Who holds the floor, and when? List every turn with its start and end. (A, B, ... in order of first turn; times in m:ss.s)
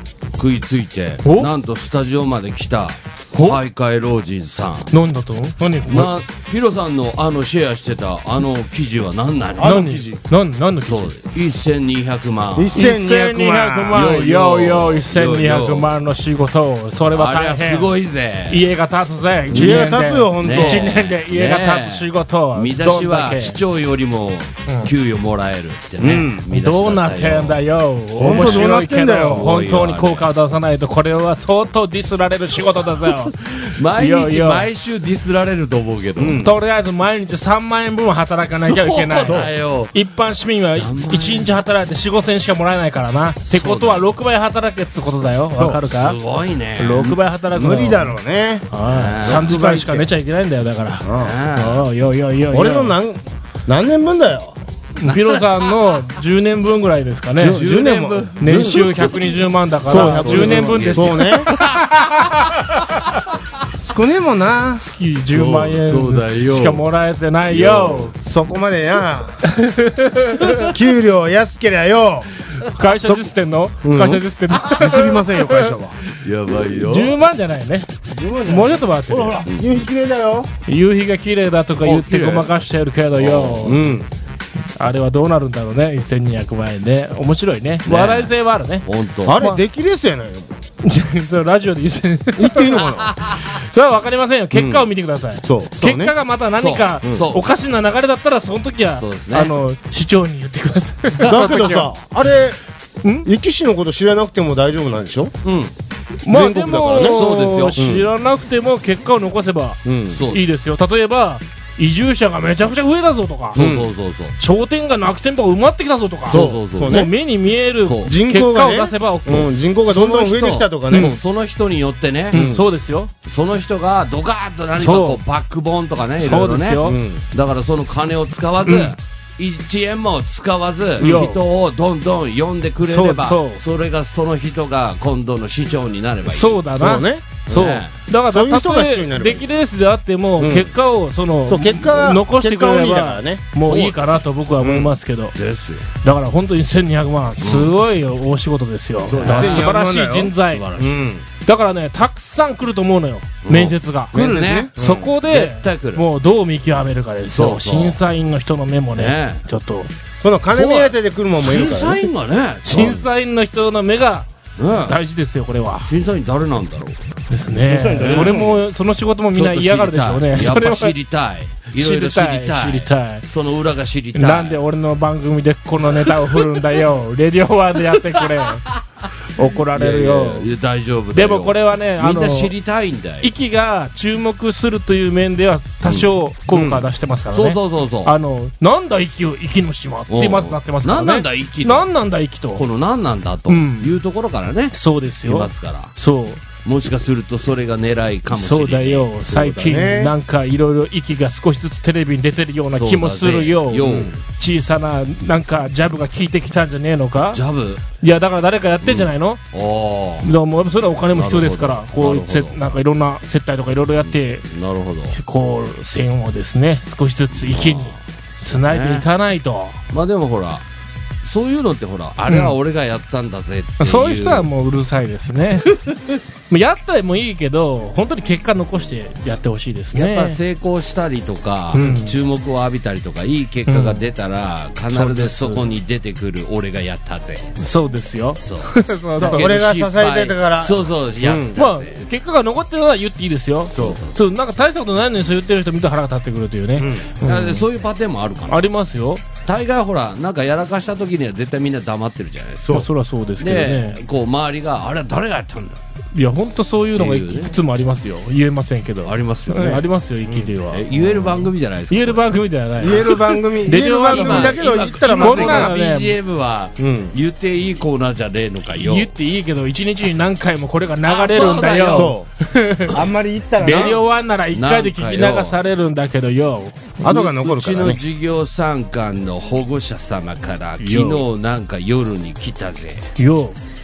0:00.4-0:04.9 A
0:01.2-0:01.5 B
0:03.3-0:03.6 B
0:04.9-0:06.1 B
0:05.9-0:10.2 A
0:09.6-0:11.2 B
0:10.8-0:12.8 A
0:12.6-0:14.1 C
0:12.8-0:17.9 B
0:13.9-0:16.0 A
0:17.1-0:18.7 A
0:18.5-0:23.6 B
0:19.5-0:19.8 A
0:19.5-0:20.9 C
0:20.4-0:27.6 A
0:26.0-0:26.4 C
0:26.5-0:33.3 B
0:28.2-0:29.5 C
0:28.2-0:28.7 A
0:29.3-0:30.3 A
0:32.5-0:36.4 A
0:34.0-0:34.7 B
0:36.2-0:36.5 C
0:36.4-0:46.2 B
0:38.6-0:39.9 A
0:40.5-0:41.5 A
0:43.5-0:44.1 A
0:45.7-0:47.2 A
0:46.8-0:48.2 B
0:47.5-0:48.7 C
0:48.7-0:53.0 B
0:48.8-0:50.1 A
0:49.2-0:49.5 C
0:51.0-0:51.4 C
0:51.1-0:51.9 A
0:52.5-0:54.6 C
0:55.0-1:03.2 B
0:55.0-0:56.0 A
0:57.4-1:03.1 A
0:57.4-0:59.0 C
0:59.8-1:01.5 C
1:03.8-1:05.7 C
1:04.8-1:08.1 B
1:05.6-1:06.8 A
1:07.5-1:08.1 A
1:08.2-1:09.4 C
1:09.4-1:10.7 B
1:10.7-1:12.3 C
1:12.6-1:15.8 B
1:12.9-1:16.0 C
1:16.1-1:17.1 A
1:16.7-1:17.9 B
1:18.1-1:20.5 C
1:18.5-1:19.4 B
1:19.4-1:19.7 A
1:20.7-1:23.9 B
1:21.8-1:22.6 A
1:23.1-1:23.8 A
1:23.6-1:24.1 C
1:24.8-1:29.6 B
1:27.8-1:28.3 A
1:28.8-1:29.4 A
1:29.2-1:30.5 C
1:30.8-1:32.8 B
1:32.4-1:33.1 C
1:32.8-1:33.4 A
1:33.4-1:41.9 B
1:34.5-1:34.8 C
1:35.4-1:36.1 C
1:36.5-1:37.4 A
1:38.9-1:39.5 A
1:41.2-1:42.6 C
1:43.0-1:43.3 B
1:43.2-1:45.3 C
1:45.4-1:45.7 A
1:46.2-1:53.6 B
1:46.3-1:47.2 C
1:47.0-1:47.8 A
1:47.7-1:48.1 C
1:49.8-1:50.2 C
1:50.1-1:50.4 A
1:53.5-1:54.4 A
1:53.6-1:53.9 C
1:54.4-1:59.7 B
1:56.3-1:57.1 A
1:56.3-1:57.1 C
1:57.8-1:58.1 A
1:58.0-2:01.1 C
1:59.9-2:02.5 A
2:00.9-2:01.2 B
2:02.3-2:02.6 C
2:02.3-2:03.1 B
2:03.2-2:16.7 A
2:04.8-2:05.2 B
2:06.2-2:07.0 B
2:06.8-2:07.2 C
2:08.6-2:08.9 B
2:11.0-2:11.4 B
2:12.8-2:13.6 B
2:16.2-2:25.4 B
2:16.8-2:17.7 C
2:17.5-2:17.9 A
2:18.3-2:19.5 C
2:20.4-2:20.7 C
2:21.4-2:23.4 C
2:23.6-2:24.2 A
2:24.6-2:25.0 C
2:25.3-2:25.8 A
2:26.0-2:30.7 B
2:27.4-2:27.7 A
2:29.0-2:31.2 C
2:29.1-2:29.8 A
2:30.4-2:31.1 A
2:31.4-2:34.1 B
2:33.4-2:36.0 A
2:34.1-2:35.1 C
2:34.8-2:39.9 B
2:37.3-2:38.0 A
2:38.9-2:39.4 A
2:40.2-2:42.1 C
2:40.5-2:43.1 A
2:42.6-2:45.9 B
2:44.6-2:45.0 A
2:45.8-2:47.0 A
2:47.3-2:50.9 B
2:47.6-2:48.6 C
2:48.0-2:48.5 A
2:49.3-2:54.6 A
2:51.7-2:53.2 B
2:54.1-2:58.6 B
2:55.9-2:56.6 A
2:59.4-3:00.5 B
2:59.7-3:03.3 A
3:01.1-3:02.5 B
3:03.2-3:12.6 B
3:06.5-3:06.8 C
3:07.3-3:08.1 A
3:10.1-3:11.9 A
3:12.5-3:15.9 A
3:13.5-3:14.0 B
3:14.7-3:16.4 B
3:16.6-3:19.1 A
3:18.3-3:27.4 B
3:19.3-3:20.1 C
3:22.7-3:24.1 A
3:23.8-3:24.1 C
3:27.3-3:27.8 A
3:28.0-3:29.4 B
3:28.8-3:30.3 A
3:30.2-3:34.4 B
3:31.1-3:32.8 A
3:34.0-3:35.2 A
3:35.1-3:39.8 B
3:37.4-3:39.1 A
3:39.9-3:40.6 A
3:41.2-3:44.5 A
3:42.3-3:42.5 B
3:43.8-3:45.8 B
3:45.7-3:45.9 A
3:46.5-3:50.4 B
3:49.9-3:57.5 A
3:51.7-3:52.2 B
3:53.7-3:54.0 B
3:54.9-3:55.7 B
3:57.6-3:59.5 B
3:58.4-4:02.0 A
3:59.2-4:01.6 C
4:01.6-4:07.6 B
4:03.7-4:04.2 A
4:06.8-4:07.0 C
4:07.2-4:08.7 A
4:08.5-4:09.2 B
4:09.4-4:12.8 A
4:12.7-4:14.0 B
4:13.4-4:15.8 A
4:16.1-4:20.8 B
4:16.9-4:17.6 A
4:19.0-4:19.8 A
4:20.3-4:21.5 C
4:20.7-4:29.1 A
4:21.9-4:26.1 B
4:22.8-4:25.8 C
4:26.8-4:27.1 C
4:28.7-4:33.0 B
4:31.0-4:32.1 A
4:31.9-4:32.3 C
4:32.9-4:34.0 C
4:33.6-4:37.0 B
4:33.6-4:35.6 A
4:37.0-4:38.0 C
4:37.0-4:43.1 A
4:40.8-4:41.2 B
4:43.2-4:43.6 B